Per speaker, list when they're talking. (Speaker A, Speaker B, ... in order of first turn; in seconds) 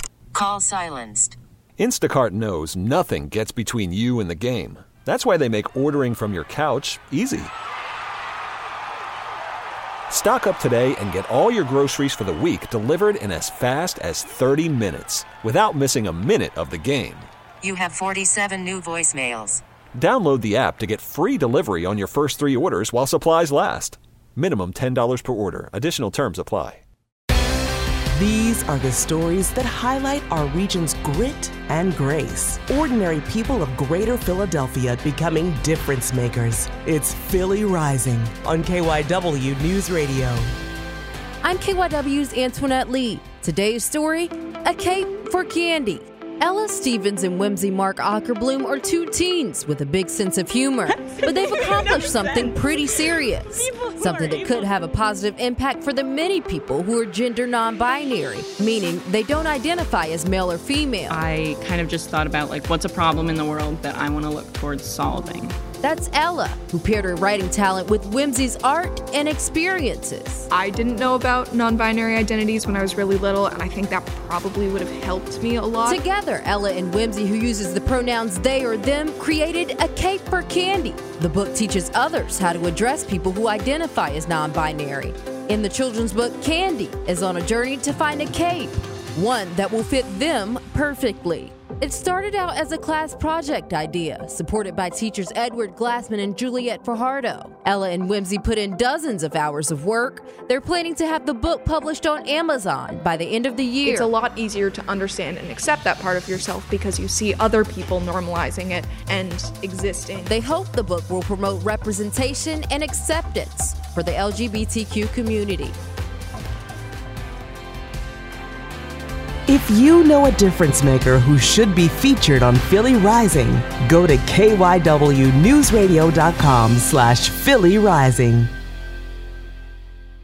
Speaker A: 0.3-1.4, 17.6-19.6
Speaker B: 1.8-7.5, 10.1-17.3, 20.0-26.8
Speaker C: 28.1-40.5, 119.5-128.5
Speaker D: 41.4-61.2, 65.8-70.5, 75.8-104.1, 110.3-115.8
Speaker E: 61.1-65.5
Speaker F: 70.5-76.0, 103.8-110.3